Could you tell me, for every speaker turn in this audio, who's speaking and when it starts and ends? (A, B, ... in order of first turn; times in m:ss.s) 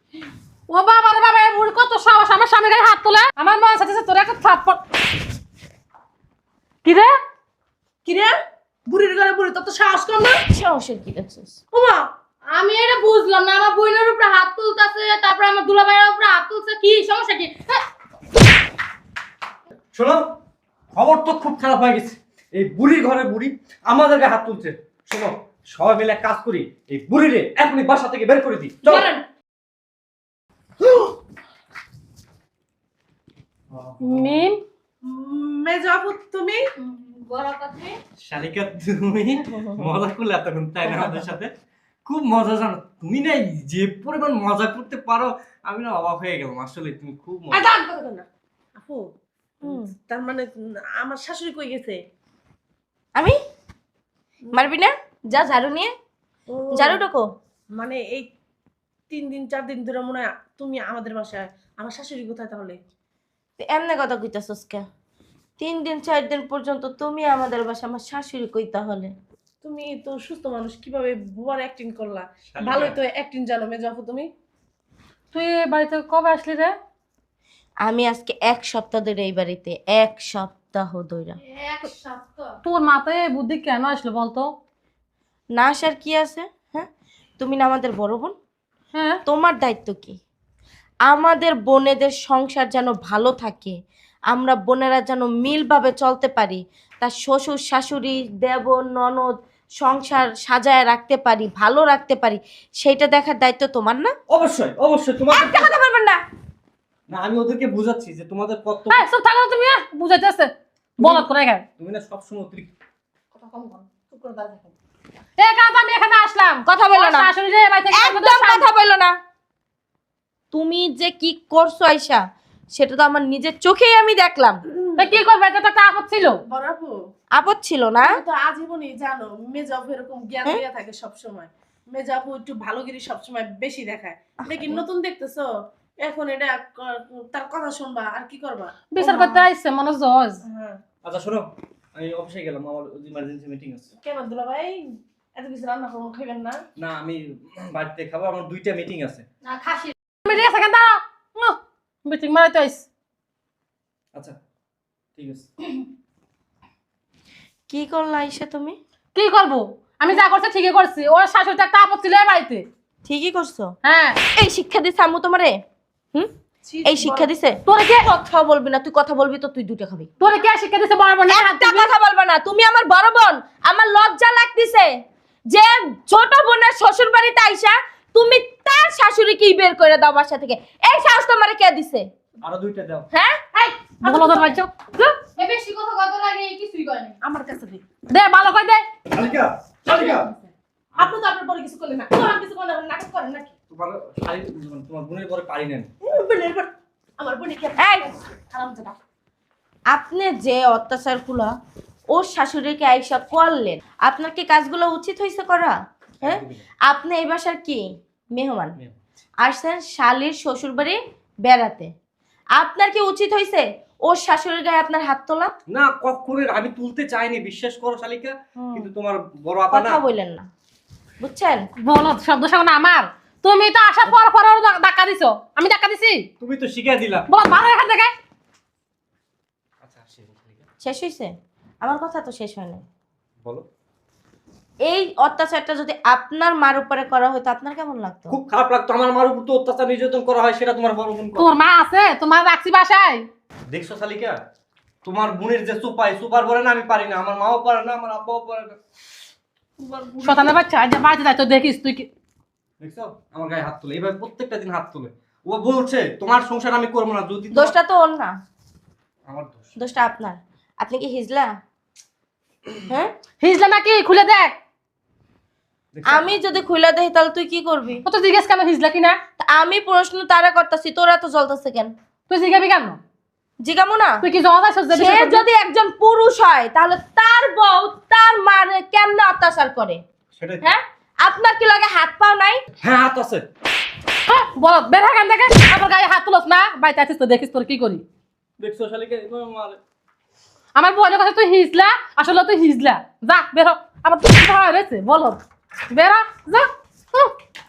0:00.7-0:04.8 A
0:06.8-0:07.1 A
0:08.0-0:08.3 B
0:08.9-0:10.4 B
0:10.5-0:11.6 C
0:11.7-0:12.0 B
0:12.5-0:17.8 D
0:19.9-0:20.2 E
0:20.9-0:29.1 E
0:28.9-0:29.2 D
0:33.7-0:34.5 E
0:34.0-0:34.6 A
0:35.0-0:36.6 B
0:36.8-0:38.0 D
0:38.2-0:41.5 E
0:39.4-0:39.9 C
0:42.0-0:47.6 E
0:47.5-0:49.1 B
0:49.6-0:49.9 C
0:49.6-0:52.0 B
0:54.5-0:55.9 C
0:56.5-0:57.0 B
0:56.7-0:57.2 C
0:57.7-0:58.3 B
0:59.1-1:02.8 B
1:03.6-1:04.8 C
1:05.6-1:09.1 C
1:09.6-1:14.3 B
1:12.5-1:13.0 E
1:15.3-1:16.7 A
1:17.8-1:21.4 C
1:21.6-1:22.6 D
1:22.6-1:24.5 A
1:25.6-1:26.9 C
1:27.4-1:28.3 C
1:28.9-1:29.2 A
1:29.2-1:30.2 C
1:31.1-1:33.7 C
1:34.3-1:44.1 C
1:44.3-1:45.7 E
1:45.3-1:46.2 C
1:47.1-1:49.0 E
1:48.9-1:51.6 A
1:51.8-1:52.7 E
1:53.3-1:54.7 B
1:55.4-1:58.7 A
1:56.6-1:57.3 C
1:57.9-1:59.1 C
2:00.5-2:04.6 C
2:04.8-2:05.1 B
2:05.0-2:06.4 A
2:06.5-2:06.9 B
2:07.3-2:08.2 C
2:08.0-2:15.5 B
2:14.4-2:14.8 C
2:16.0-2:18.9 B
2:18.9-2:20.4 A
2:19.0-2:19.5 C
2:20.5-2:20.8 B
2:21.0-2:23.9 E
2:24.0-2:26.6 B
2:26.8-2:29.2 E
2:29.4-2:29.9 D
2:30.2-2:32.8 A
2:35.2-2:35.5 E
2:37.7-2:38.8 C
2:39.1-2:42.6 A
2:43.0-2:43.7 C
2:43.8-2:44.2 A
2:44.4-2:45.6 C
2:46.6-2:47.3 B
2:46.8-2:50.1 C
2:47.7-2:48.1 A
2:50.2-2:51.9 A
2:51.3-2:54.9 C
2:55.5-3:02.0 C
3:02.4-3:03.1 E
3:03.1-3:03.4 C
3:03.5-3:04.6 B
3:04.0-3:05.3 A
3:05.3-3:07.2 D
3:07.2-3:07.8 B
3:08.1-3:08.9 A
3:09.1-3:10.3 E
3:09.9-3:13.5 B
3:13.7-3:15.9 E
3:16.0-3:19.0 B
3:17.8-3:18.1 C
3:19.9-3:21.5 C
3:22.1-3:28.8 C
3:26.2-3:26.6 E
3:29.4-3:31.9 C
3:32.6-3:35.5 C
3:35.7-3:40.0 E
3:38.6-3:38.9 C
3:39.7-3:40.5 C
3:41.2-3:41.7 C
3:41.8-3:46.2 A
3:46.4-3:47.3 E
3:47.3-3:48.1 A
3:49.8-3:50.7 E
3:50.8-3:52.8 C
3:54.9-3:58.4 C
3:58.3-4:01.5 E
4:01.4-4:03.2 A
4:03.7-4:04.4 E
4:05.0-4:08.8 E
4:09.8-4:10.5 B
4:10.2-4:12.1 A
4:12.8-4:17.7 E
4:17.5-4:18.3 C
4:19.3-4:19.7 E
4:19.8-4:21.5 C
4:22.9-4:23.1 C
4:23.4-4:24.6 A
4:25.9-4:26.3 E
4:26.1-4:28.0 C
4:28.0-4:29.2 A
4:29.4-4:31.9 C
4:32.3-4:33.0 A
4:33.6-4:34.2 C
4:34.2-4:35.4 A
4:34.9-4:40.0 C
4:40.3-4:40.6 E
4:40.6-4:42.6 C
4:42.8-4:43.5 E
4:44.3-4:48.0 A
4:48.6-4:49.8 E
4:50.7-4:57.3 A